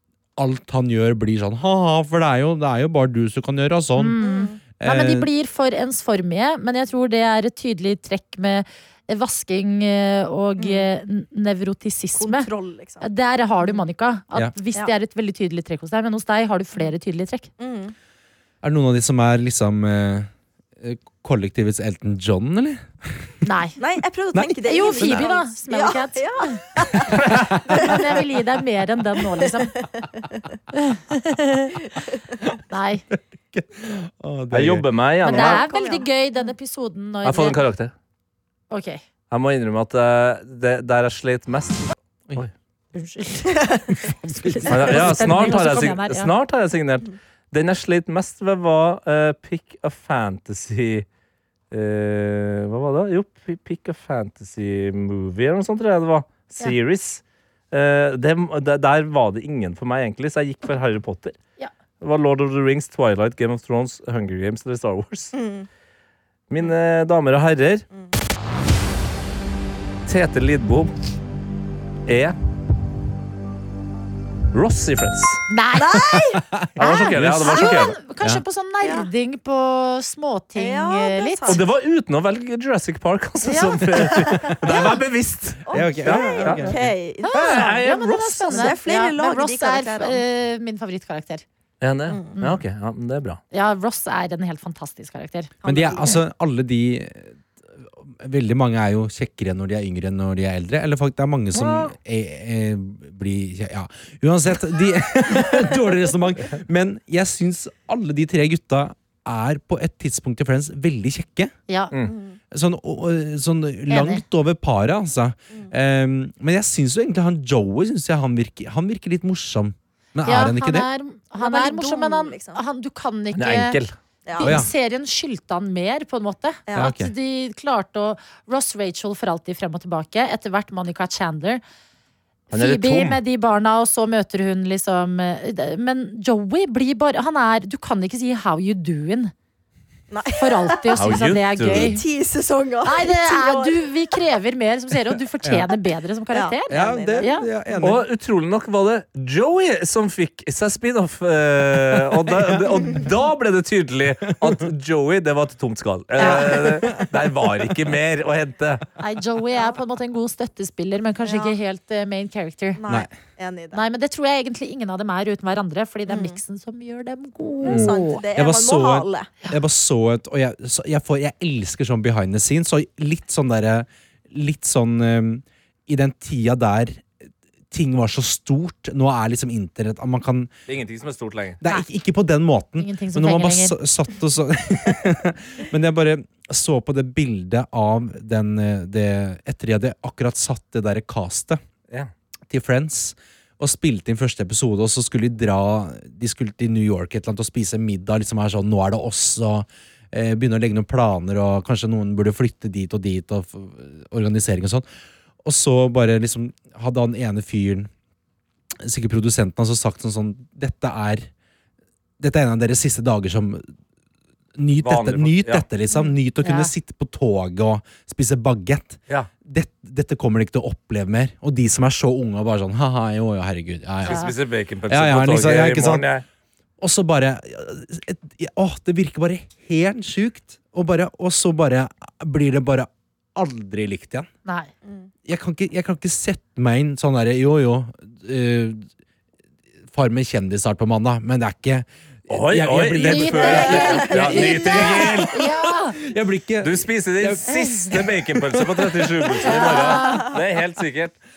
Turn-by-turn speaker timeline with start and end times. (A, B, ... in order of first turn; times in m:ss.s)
0:00.4-0:04.2 A
0:04.0-0:12.5 B
0:04.2-0:04.6 C
0:04.8-0:05.3 A
0:10.6-0:10.9 C
0:12.1-0:13.0 C
0:13.0-0:17.5 B
0:17.6-0:17.9 C
0:18.6-0:23.3 A
0:23.4-0:23.8 B
0:23.8-0:28.0 C
0:24.3-0:25.2 A
0:24.6-0:26.6 B
0:27.0-0:27.8 A
0:27.7-0:29.8 B
0:29.4-0:30.4 C
0:30.7-0:31.8 B
0:32.7-0:33.0 B
0:33.1-0:34.9 A
0:34.5-0:35.6 D
0:35.2-0:36.1 C
0:35.2-0:37.6 B
0:37.2-0:37.9 D
0:38.7-0:39.0 B
0:39.3-0:42.5 D
0:42.9-0:46.3 B
0:43.5-0:43.8 C
0:44.0-0:45.6 A
0:44.7-0:51.0 D
0:51.7-1:01.4 D
1:02.0-1:05.4 D
1:05.3-1:05.7 C
1:06.5-1:07.8 D
1:10.0-1:10.9 D
1:12.1-1:12.4 D
1:14.5-1:15.4 D
1:15.5-1:16.2 B
1:15.8-1:16.4 C
1:16.0-1:18.4 A
1:16.8-1:21.6 B
1:16.8-1:17.9 D
1:18.8-1:19.1 C
1:20.6-1:21.6 C
1:21.5-1:26.8 D
1:23.4-1:24.2 B
1:24.0-1:24.9 C
1:25.6-1:27.8 C
1:25.7-1:27.0 A
1:27.2-1:31.4 B
1:27.3-1:28.7 D
1:28.5-1:30.2 C
1:31.8-1:33.4 D
1:32.1-1:32.4 C
1:32.4-1:32.6 B
1:33.5-1:35.5 B
1:35.6-1:36.2 C
1:35.6-1:51.5 A
1:41.5-1:41.9 B
1:51.7-1:51.9 B
1:52.0-1:52.4 C
1:52.5-2:00.9 A
1:53.9-1:54.2 B
2:00.2-2:03.8 B
2:01.4-2:02.6 C
2:03.3-2:03.9 D
2:04.2-2:04.6 C
2:04.4-2:11.6 B
2:04.4-2:04.7 A
2:06.7-2:07.1 A
2:12.5-2:19.3 B
2:12.5-2:13.2 D
2:20.1-2:24.2 C
2:20.3-2:22.0 B
2:21.0-2:21.9 D
2:22.8-2:27.5 B
2:25.4-2:25.7 A
2:26.3-2:27.3 C
2:26.7-2:28.0 A
2:27.8-2:38.8 D
2:31.9-2:32.6 A
2:36.2-2:36.6 B
2:36.2-2:37.0 C
2:36.9-2:37.5 A
2:39.0-2:42.8 B
2:41.2-2:41.6 C
2:42.8-2:43.8 C
2:42.8-2:43.1 A
2:43.7-2:48.2 B
2:46.1-2:46.4 C
2:47.4-2:49.3 C
2:47.6-2:57.0 A
2:57.7-3:00.5 A
3:00.7-3:01.6 D
3:01.6-3:11.6 A
3:02.8-3:03.8 B
3:12.5-3:24.8 A
3:25.4-3:27.9 A
3:28.8-3:31.3 A
3:32.2-3:33.7 A
3:34.6-3:44.3 A
3:34.8-3:35.6 D
3:36.4-3:36.7 B
3:44.0-3:46.2 D
3:44.0-3:44.3 B
3:44.9-3:46.1 A
3:46.8-3:54.3 A
3:54.4-3:54.7 B
3:55.2-3:58.8 A
3:59.9-4:04.4 A
4:02.3-4:05.3 D
4:03.0-4:06.0 B
4:03.4-4:05.3 C
4:05.0-4:09.6 A
4:06.6-4:11.1 D
4:07.5-4:07.8 B
4:09.4-4:10.4 C
4:09.5-4:10.3 B